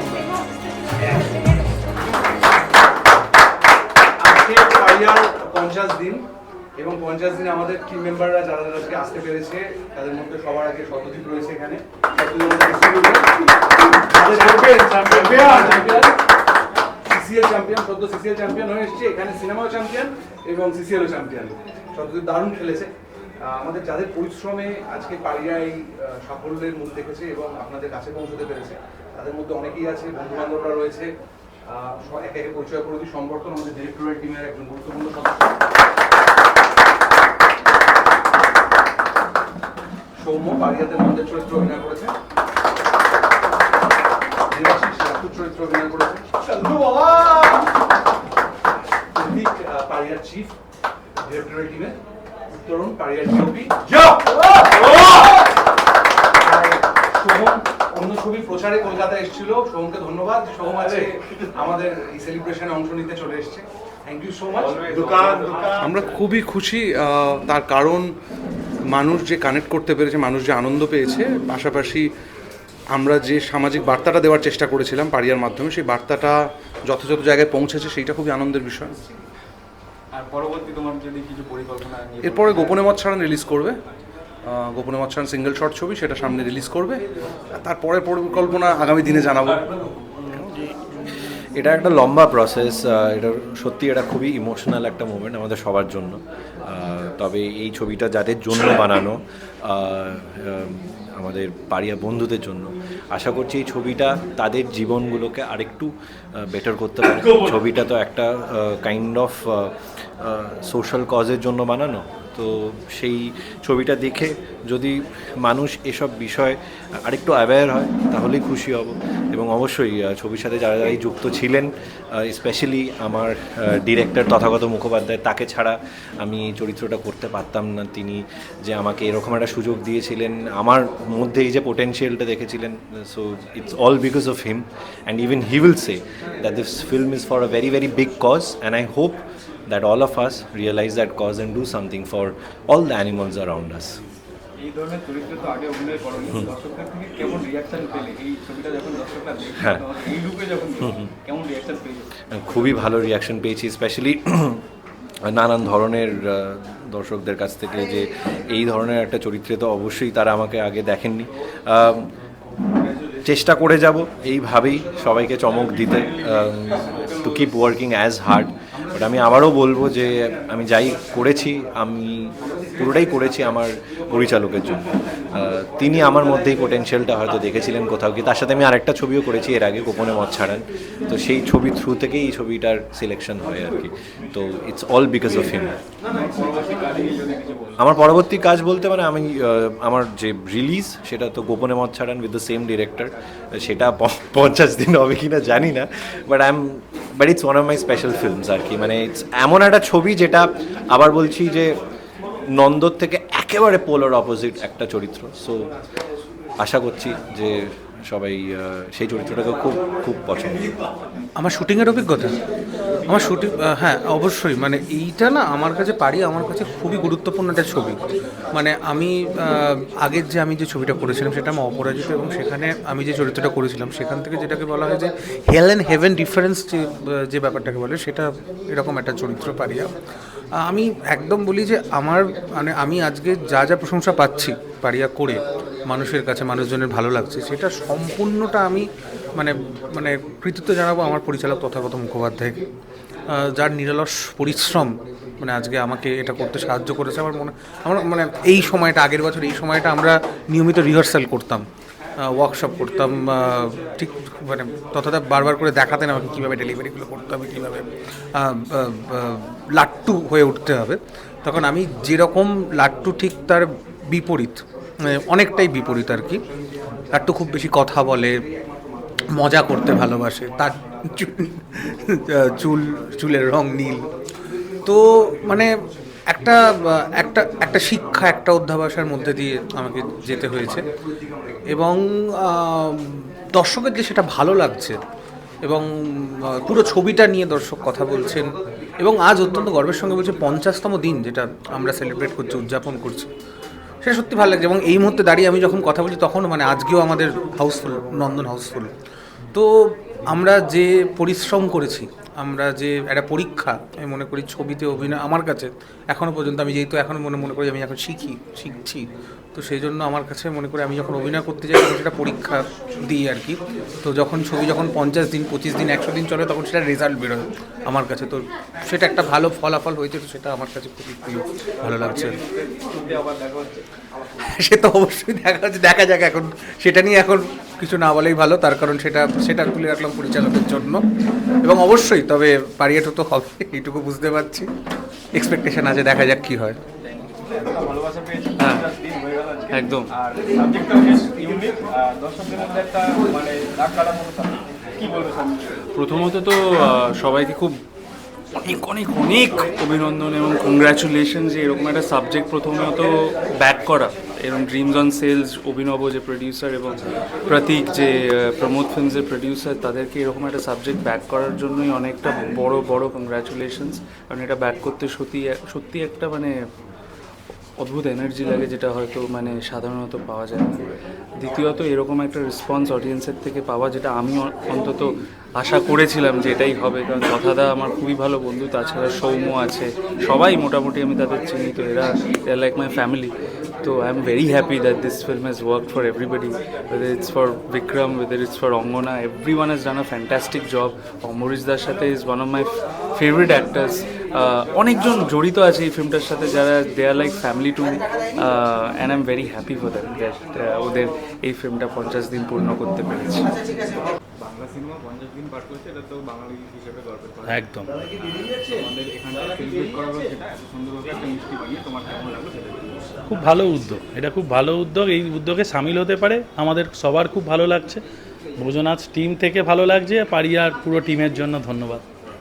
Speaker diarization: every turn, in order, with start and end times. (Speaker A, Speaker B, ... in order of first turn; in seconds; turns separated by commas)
Speaker A: 4.2-6.2, Speaker A: 6.8-13.3, Speaker A: 14.1-16.2, Speaker B: 14.2-16.0, Speaker A: 17.1-22.9, Speaker A: 23.4-31.1, Speaker A: 31.7-35.6, Speaker A: 40.1-42.1, Speaker A: 44.5-47.6, Speaker A: 49.1-50.5, Speaker A: 51.2-52.0, Speaker A: 52.5-53.9, Speaker B: 54.1-55.1, Speaker A: 56.4-68.1, Speaker B: 64.5-66.1, Speaker A: 68.9-72.1, Speaker A: 72.9-79.0, Speaker B: 80.1-83.1, Speaker A: 82.2-83.8, Speaker A: 84.4-89.7, Speaker C: 91.5-144.0, Speaker B: 144.6-152.1, Speaker C: 149.6-149.8, Speaker C: 150.8-151.1, Speaker C: 152.3-154.6, Speaker C: 155.2-162.1, Speaker C: 163.2-185.8, Speaker B: 186.0-187.8, Speaker C: 187.8-201.7, Speaker C: 202.5-205.7, Speaker C: 206.6-210.7, Speaker D: 211.4-212.4, Speaker D: 213.0-229.9, Speaker D: 230.6-242.6, Speaker D: 243.3-251.6, Speaker D: 252.2-266.4, Speaker D: 267.1-268.4, Speaker D: 269.4-274.1, Speaker D: 274.8-275.7, Speaker D: 276.3-280.9, Speaker D: 281.7-285.0, Speaker D: 285.6-293.3, Speaker D: 294.0-298.9, Speaker D: 299.5-322.4, Speaker B: 321.8-324.2, Speaker D: 324.4-331.0, Speaker D: 331.6-334.7, Speaker D: 335.3-336.8, Speaker B: 337.0-345.8, Speaker E: 338.6-338.9, Speaker E: 339.7-340.1, Speaker E: 345.9-347.8, Speaker E: 348.5-366.6, Speaker E: 367.8-370.8, Speaker E: 371.4-403.5, Speaker B: 404.4-407.6, Speaker F: 407.5-407.9, Speaker B: 408.1-413.1, Speaker F: 413.3-418.0, Speaker F: 418.6-422.0